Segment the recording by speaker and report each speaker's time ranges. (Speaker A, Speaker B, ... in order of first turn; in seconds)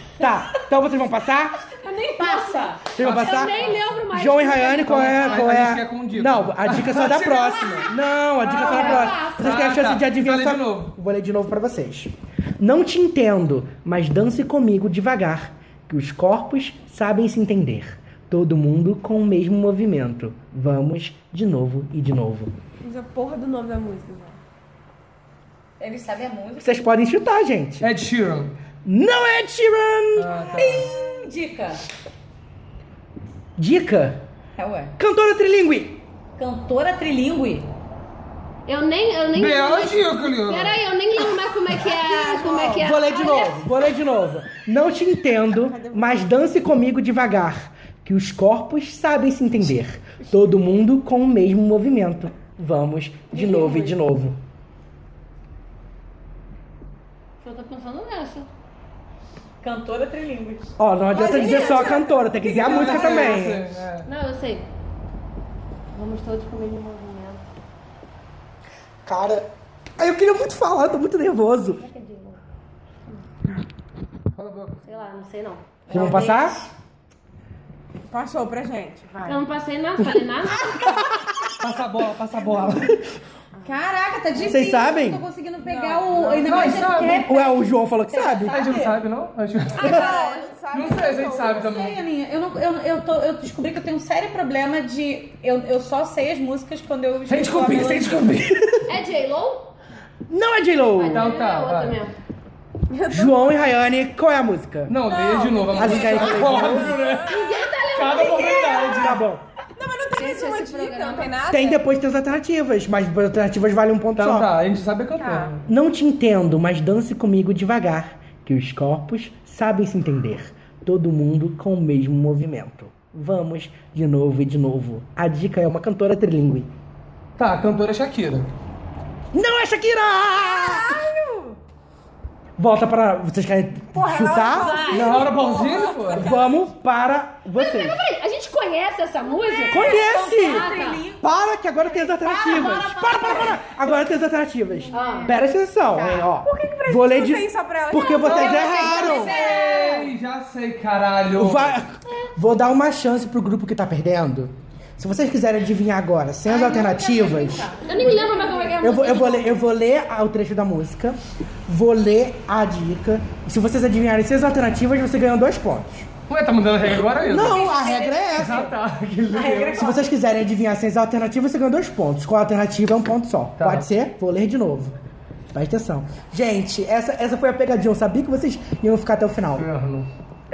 Speaker A: 0.2-1.6, 2.9-22.5, 26.6-27.9, 28.8-30.7, 33.6-34.2, 35.0-36.0, 42.7-54.4, 60.8-63.6, 69.0-69.5, 70.0-71.8, 75.9-76.7, 80.6-81.5, 84.4-85.2, 87.0-88.6, 100.3-101.3, 103.1-105.0, 105.8-107.0, 109.0-109.4, 111.5-114.5, 115.7-126.7, 129.3-131.0, 132.6-135.3, 136.1-138.0, 139.7-149.3, 151.3-157.7, 158.8-166.1, 167.2-168.7, 169.8-174.9, 175.5-179.7
Speaker B: 1.8-5.6, 38.7-43.6, 53.3-53.9, 57.4-58.5, 61.1-63.4, 64.0-64.6, 65.9-67.4, 71.8-72.4, 74.8-76.2, 79.2-80.7, 98.9-99.7, 101.0-102.1, 107.3-109.1, 110.1-111.3, 134.4-135.4, 137.5-141.0, 144.9-145.3, 148.3-150.1, 157.8-159.6
Speaker C: 2.1-2.9, 8.4-9.7, 25.8-26.9, 30.6-31.8, 34.6-34.9, 36.4-37.7, 41.9-42.8, 59.6-60.7, 75.9-76.5, 83.6-88.9, 89.9-90.5, 91.4-98.4, 139.6-143.9, 144.7-146.3, 148.8-150.1, 156.4-158.8, 167.2-168.7, 169.3-170.1
Speaker D: 3.0-3.8, 4.8-7.9, 8.6-10.9, 27.8-28.5, 30.1-30.9, 39.3-40.8, 62.4-64.1, 74.3-74.8, 81.6-83.0, 86.2-87.2, 88.5-90.1, 90.7-92.0, 97.3-98.8, 101.1-102.0, 104.9-109.2, 114.2-115.6, 127.4-128.5, 134.9-136.3, 148.2-151.8, 166.3-167.8, 168.3-169.8, 173.6-173.9, 179.6-180.1
Speaker E: 22.8-24.4, 45.6-46.1, 61.2-62.0, 78.1-79.4, 85.6-86.9, 89.8-91.7, 102.9-103.7, 105.1-107.4, 109.8-111.8, 115.2-115.5, 130.4-131.6, 133.9-136.6, 146.4-149.5